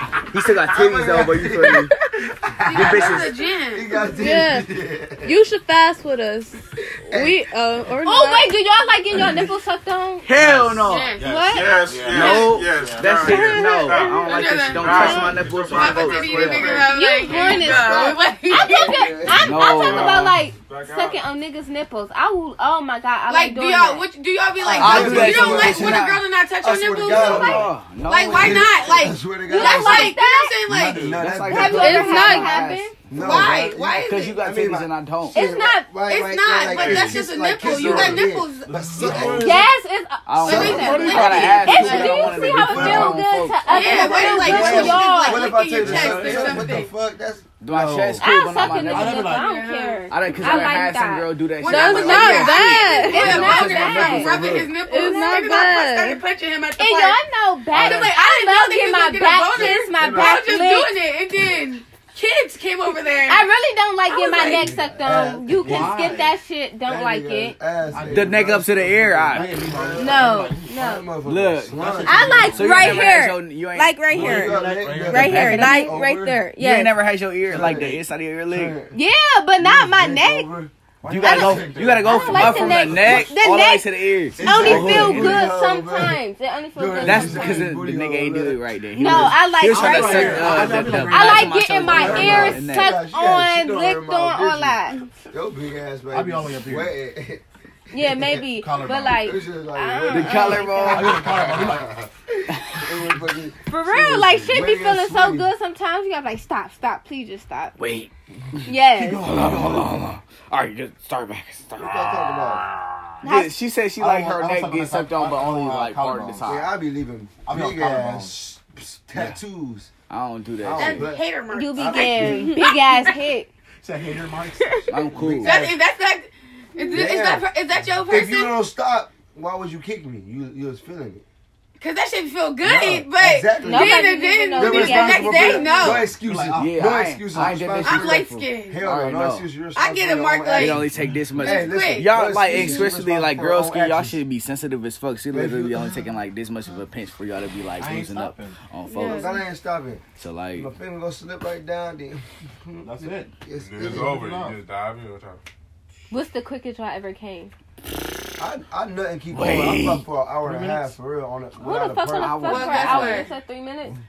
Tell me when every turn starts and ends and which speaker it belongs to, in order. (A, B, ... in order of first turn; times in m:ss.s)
0:00.2-0:01.9 A
0:00.6-0:05.4 B
0:02.6-0:04.0 C
0:02.7-0:03.3 A
0:04.1-0:04.7 D
0:05.2-0:08.6 D
0:06.8-0:07.4 B
0:08.0-0:10.3 E
0:09.1-0:09.5 F
0:10.2-0:11.2 A
0:10.3-0:13.6 F
0:10.8-0:11.3 C
0:11.2-0:12.4 E
0:11.4-0:18.0 G
0:12.0-0:16.9 A
0:13.5-0:14.0 E
0:13.8-0:19.2 C
0:16.8-0:24.1 E
0:17.8-0:19.5 B
0:19.4-0:21.3 G
0:19.4-0:20.2 A
0:23.3-0:31.2 C
0:24.6-0:25.1 E
0:24.7-0:32.2 B
0:24.8-0:26.2 A
0:27.1-0:28.8 A
0:27.2-0:27.6 E
0:29.5-0:30.7 E
0:30.7-0:31.3 G
0:31.2-0:32.9 A
0:31.5-0:33.6 E
0:31.6-0:32.8 D
0:33.1-0:39.7 B
0:33.1-0:34.4 C
0:34.0-0:35.4 A
0:35.3-0:35.9 E
0:35.9-0:38.9 C
0:36.7-0:37.3 G
0:37.7-0:39.7 F
0:39.3-0:45.6 E
0:40.3-0:44.9 A
0:40.4-0:42.7 C
0:40.4-0:43.3 B
0:40.5-0:42.0 F
0:42.8-0:43.0 F
0:43.7-0:46.9 C
0:43.8-0:48.2 B
0:44.4-0:44.9 F
0:45.8-0:46.8 F
0:47.6-0:49.3 A
0:47.7-0:49.6 F
0:48.2-0:51.3 E
0:49.2-0:50.8 C
0:50.1-0:54.7 A
0:51.6-1:03.5 C
0:51.6-0:53.4 D
0:51.9-0:54.4 E
0:54.0-0:54.6 F
0:54.8-0:56.2 D
0:56.8-1:00.9 E
0:57.7-0:58.1 F
0:59.4-1:00.5 B
1:03.2-1:07.6 E
1:04.1-1:04.7 C
1:04.4-1:06.3 B
1:05.6-1:06.3 F
1:06.8-1:13.1 B
1:07.8-1:10.8 F
1:08.1-1:09.6 A
1:10.0-1:11.1 E
1:11.2-1:14.1 A
1:11.8-1:13.1 F
1:12.0-1:17.0 E
1:14.1-1:15.9 F
1:14.1-1:16.4 B
1:15.0-1:15.9 A
1:16.6-1:18.8 A
1:17.5-1:19.0 B
1:18.9-1:20.5 E
1:19.6-1:23.3 B
1:21.1-1:25.3 A
1:21.2-1:23.3 F
1:21.2-1:23.9 E
1:24.4-1:25.5 F
1:24.4-1:26.2 B
1:24.4-1:27.7 E
1:26.7-1:29.3 B
1:27.0-1:33.0 A
1:29.0-1:35.0 E
1:29.6-1:32.5 F
1:31.8-1:34.8 B
1:35.3-1:37.4 B
1:36.1-1:36.9 F
1:37.9-1:41.2 E
1:37.9-1:38.4 B
1:38.5-1:39.3 F
1:39.0-1:45.5 B
1:40.1-1:41.2 A
1:40.8-1:42.0 F
1:41.5-1:42.0 G
1:43.7-1:47.8 E
1:47.8-1:52.4 A
1:48.7-1:49.4 E
1:51.8-1:52.6 B
1:53.2-1:56.7 A
1:53.2-1:53.6 E
1:54.0-1:56.6 F
1:56.4-1:59.9 B
1:57.5-1:58.4 F
2:00.1-2:01.1 A
2:00.6-2:02.5 B
2:00.8-2:03.1 C
2:01.5-2:03.5 E
2:03.8-2:04.8 F
2:04.9-2:05.6 A
2:05.2-2:05.8 B
2:05.4-2:08.6 C
2:06.9-2:07.5 B
2:08.1-2:11.2 B
2:11.8-2:16.1 C
2:12.6-2:24.2 B
2:13.6-2:15.9 E
2:15.8-2:17.0 F
2:16.5-2:18.2 A
2:17.8-2:18.8 C
2:18.8-2:19.5 A
2:19.8-2:20.8 C
2:20.5-2:29.4 A
2:20.9-2:21.4 F
2:21.4-2:22.2 C
2:22.3-2:22.9 F
2:25.3-2:26.1 B
2:27.8-2:28.6 F
2:28.9-2:29.4 D
2:29.0-2:30.0 B
2:30.2-2:30.7 A
2:30.6-2:34.3 B
2:32.8-2:34.6 F
2:33.6-2:35.4 G
2:36.1-2:37.5 E
2:38.4-2:42.6 B
2:39.3-2:40.9 A
2:41.6-2:44.0 E
2:42.1-2:43.3 A
2:42.4-2:43.3 C